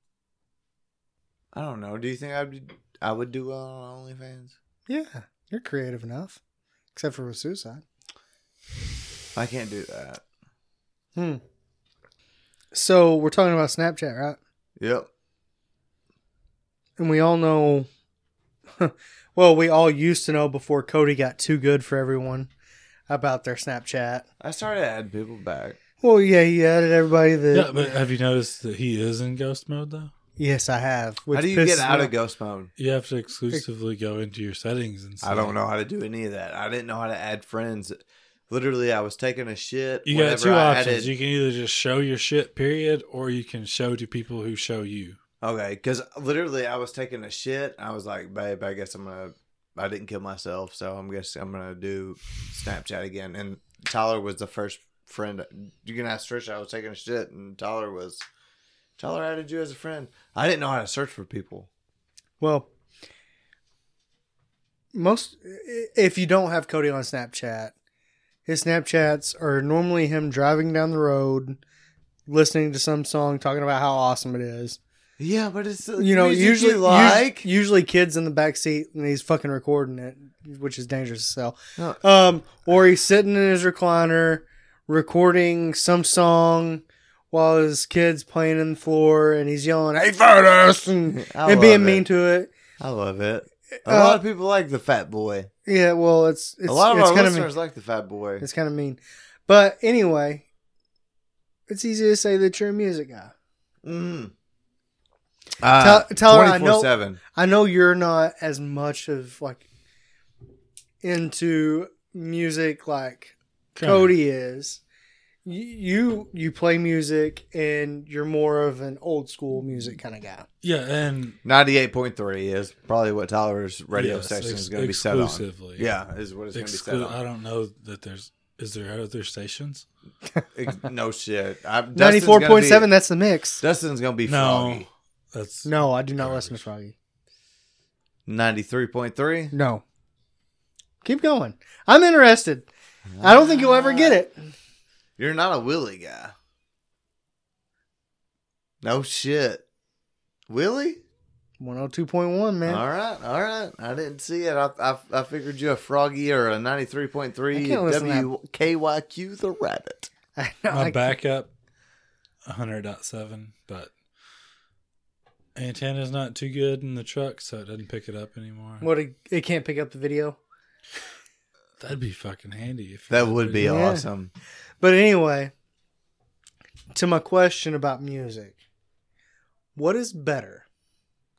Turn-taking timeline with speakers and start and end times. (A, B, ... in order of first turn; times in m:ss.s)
0:01.5-0:04.6 A
0:04.9-0:06.4 B
0:07.0-0:07.8 B
0:09.4-0:10.2 A
0:11.2-0:11.4 B
0:12.7-0:14.4 B
0:14.8-0:15.1 A
0:17.0-0:17.9 B
0:18.8-0:22.5 B
0:23.1-0:24.3 B
0:24.4-0:25.8 A
0:26.0-0:28.0 B
0:27.5-0:30.1 C
0:30.4-0:32.1 B
0:31.3-0:32.7 A
0:32.8-0:35.5 C
0:35.2-0:41.1 A
0:40.0-0:45.2 C
0:45.4-0:58.2 A
0:59.0-1:01.7 A
1:02.4-1:02.7 B
1:04.9-1:07.7 B
1:08.5-1:11.6 B
1:12.3-1:14.8 B
1:15.2-1:17.5 A
1:16.0-1:32.5 B
1:31.1-1:32.0 A
1:32.8-1:35.5 A
1:33.8-1:34.2 B
1:35.7-1:37.5 B
1:36.7-1:38.4 A
1:38.4-1:40.5 B
1:41.7-1:43.3 B
1:43.8-1:44.3 A
1:45.6-1:47.2 A
1:45.8-1:49.6 B
1:51.0-1:54.8 B
1:53.8-1:54.1 C
1:55.4-2:00.5 B
2:00.6-2:01.4 C
2:01.4-2:07.2 A
2:03.9-2:05.9 C
2:06.5-2:09.9 C
2:10.6-2:12.9 A
2:12.0-2:13.6 B
2:13.6-2:14.9 A
2:14.3-2:16.6 C
2:15.7-2:17.0 B
2:18.3-2:19.5 A
2:19.5-2:19.8 B
2:21.0-2:22.7 B
2:23.1-2:24.2 A
2:23.2-2:24.4 B
2:25.2-2:26.3 A
2:28.8-2:29.6 A
2:30.5-2:31.0 A
2:31.6-2:32.8 B
2:32.7-2:40.1 A
2:37.5-2:38.3 B
2:40.4-2:41.1 B
2:40.7-2:41.5 C
2:42.5-2:43.9 C
2:45.6-2:48.8 C
2:48.8-2:50.4 B
2:51.8-2:53.7 C
2:53.1-2:54.3 A
2:53.6-2:54.1 B
2:54.8-2:55.5 B
2:56.9-2:58.6 B
2:59.8-3:00.6 B